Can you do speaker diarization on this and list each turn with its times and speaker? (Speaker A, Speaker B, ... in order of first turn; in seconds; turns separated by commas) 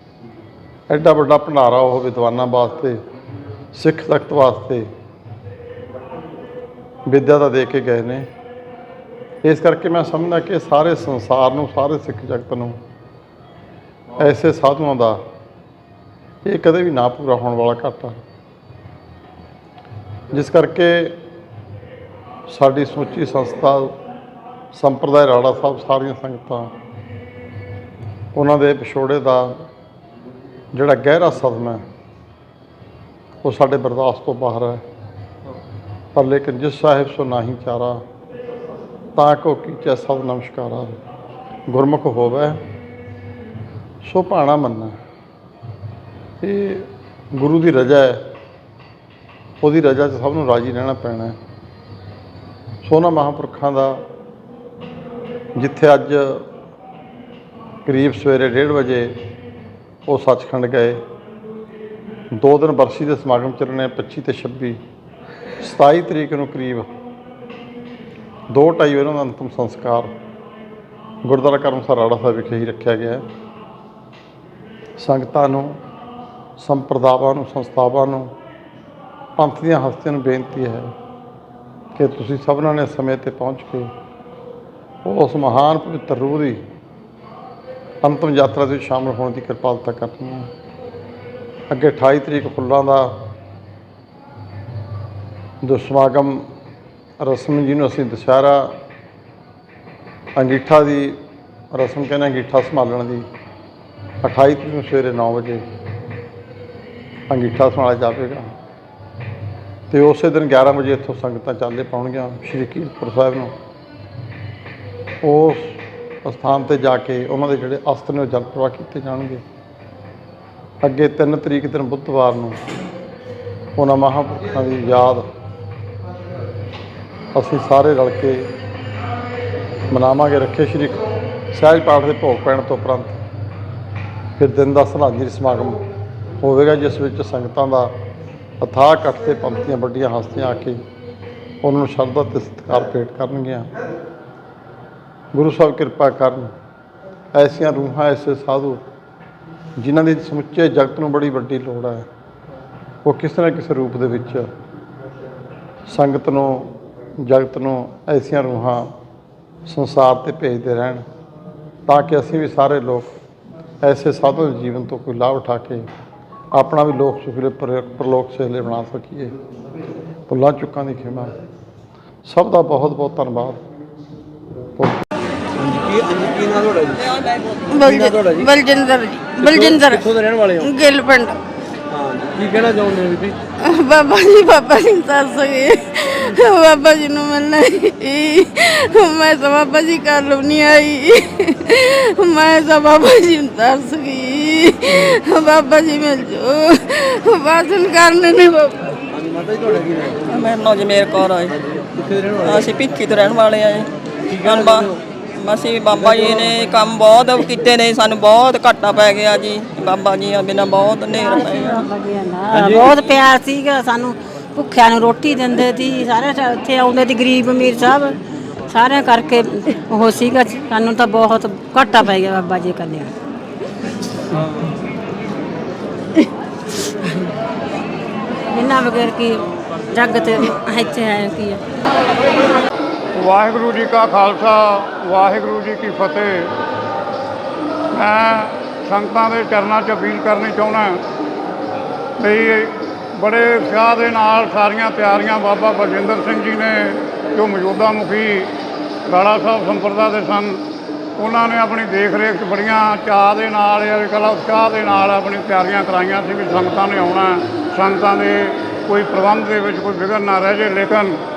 Speaker A: 0.9-3.0, Speaker A: 3.7-4.9, Speaker A: 7.0-8.3, Speaker A: 9.4-12.8, Speaker A: 14.2-15.2, Speaker A: 16.4-18.2, Speaker A: 20.3-21.2, Speaker A: 22.5-23.9, Speaker A: 24.7-26.7, Speaker A: 28.3-29.6, Speaker A: 30.7-31.8, Speaker A: 33.4-34.8, Speaker A: 36.1-38.0, Speaker A: 39.1-41.0, Speaker A: 41.7-42.6, Speaker A: 44.0-44.9, Speaker A: 46.4-48.3, Speaker A: 49.6-51.4, Speaker A: 52.8-54.0, Speaker A: 55.5-56.5, Speaker A: 57.8-59.1, Speaker A: 60.0-61.0, Speaker A: 62.3-64.8, Speaker A: 65.6-66.9, Speaker A: 68.5-70.1, Speaker A: 71.2-73.2, Speaker A: 75.0-75.8, Speaker A: 76.6-78.3, Speaker A: 79.4-80.9, Speaker A: 82.0-83.9, Speaker A: 85.0-86.6, Speaker A: 88.0-90.5, Speaker A: 91.7-93.2, Speaker A: 95.6-96.5, Speaker A: 97.2-98.7, Speaker A: 100.3-101.2, Speaker A: 101.7-103.2, Speaker A: 104.2-105.6, Speaker A: 107.3-108.5, Speaker A: 109.9-113.5, Speaker A: 115.2-119.4, Speaker A: 120.8-122.6, Speaker A: 123.8-125.3, Speaker A: 127.3-128.5, Speaker A: 129.9-133.2, Speaker A: 134.4-135.8, Speaker A: 136.4-137.9, Speaker A: 138.6-140.8, Speaker A: 141.6-143.7, Speaker A: 145.3-146.5, Speaker A: 147.3-148.8, Speaker A: 149.8-152.1, Speaker A: 153.0-154.5, Speaker A: 155.9-158.9, Speaker A: 159.7-161.0, Speaker A: 161.9-163.1, Speaker A: 163.8-165.8, Speaker A: 166.5-169.3, Speaker A: 170.3-171.3, Speaker A: 172.2-173.6, Speaker B: 175.6-177.0, Speaker C: 177.7-181.4, Speaker B: 177.9-178.5, Speaker B: 179.4-180.6, Speaker B: 181.9-183.3, Speaker C: 183.6-198.8, Speaker B: 199.2-200.2, Speaker D: 200.2-201.6, Speaker B: 202.2-202.5, Speaker D: 202.3-211.9, Speaker B: 204.4-204.8, Speaker E: 211.1-218.2, Speaker E: 218.7-223.1, Speaker E: 228.5-231.6, Speaker F: 233.1-236.5, Speaker F: 237.9-241.0, Speaker F: 242.2-248.5, Speaker F: 249.1-250.6, Speaker F: 251.2-261.2